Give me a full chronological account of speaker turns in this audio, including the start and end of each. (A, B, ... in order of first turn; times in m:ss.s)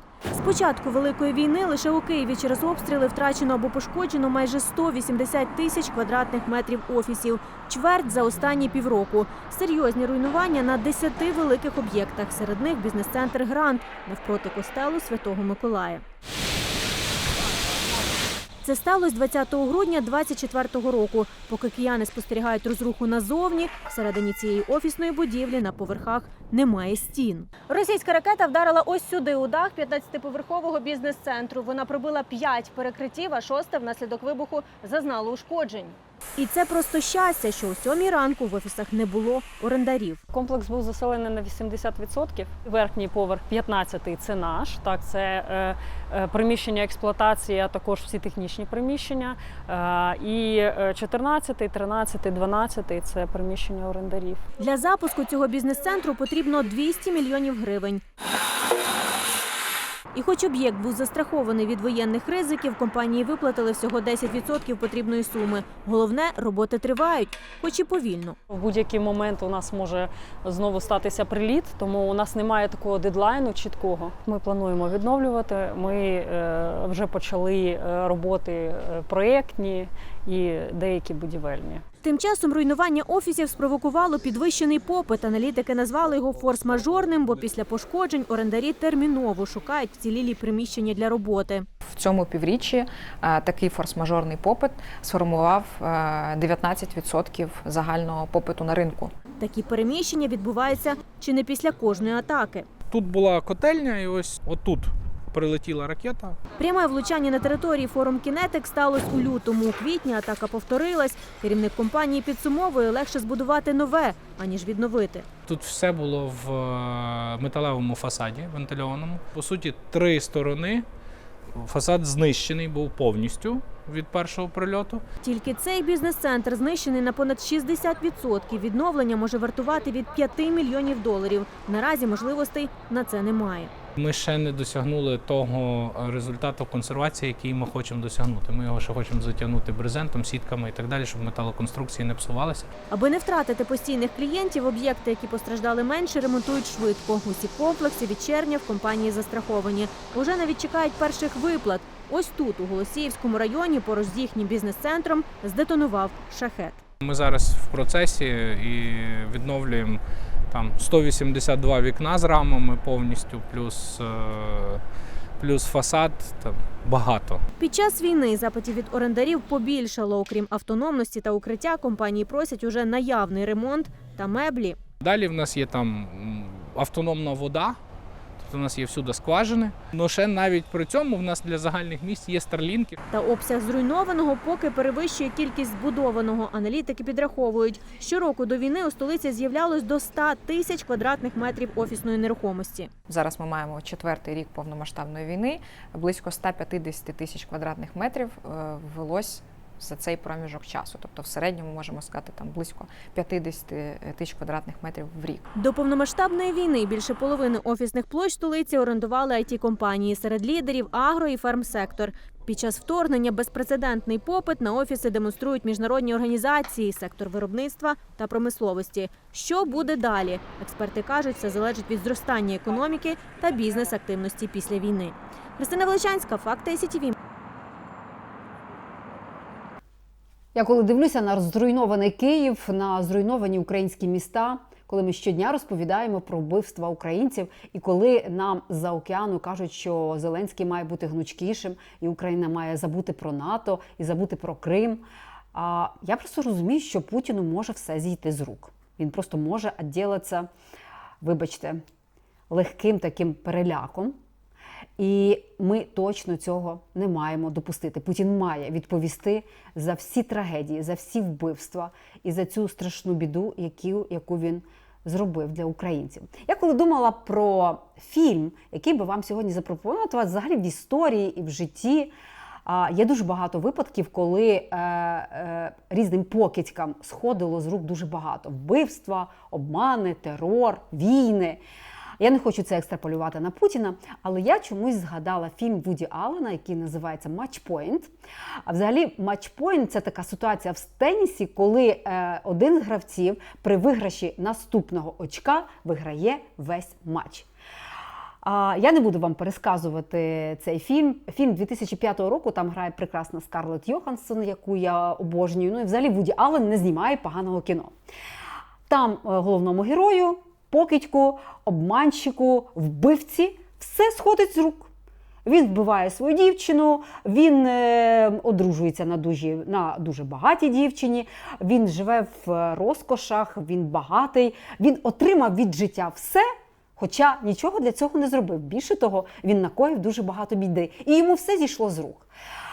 0:00.3-0:16.0 A
0:18.6-0:40.2 A
0:40.3-0:54.4 B
0:54.6-0:58.0 A
1:00.1-1:08.4 A
1:08.5-1:21.8 B
1:22.0-1:31.6 A
1:31.8-1:39.1 C
1:39.4-1:42.7 A
1:42.9-1:46.4 D
1:46.6-1:55.3 A
1:55.5-2:00.8 D
2:01.6-2:05.0 D
2:05.2-2:13.7 A
2:14.0-2:22.7 D
2:22.9-2:36.8 A
2:37.0-2:44.8 D
2:45.4-2:47.4 D
2:47.6-2:54.8 A
2:55.0-2:57.8 D
2:58.4-3:03.0 D
3:03.1-3:12.9 A
3:13.1-3:25.5 C
3:25.5-3:47.1 A
3:50.5-4:10.5 E
4:11.2-4:11.8 E
4:12.5-4:14.1 E
4:15.0-4:32.1 E
4:32.6-4:41.6 E
4:42.2-4:48.1 E
4:48.6-4:57.5 E
4:58.4-5:07.9 E
5:08.9-5:14.9 E
5:15.4-5:32.3 E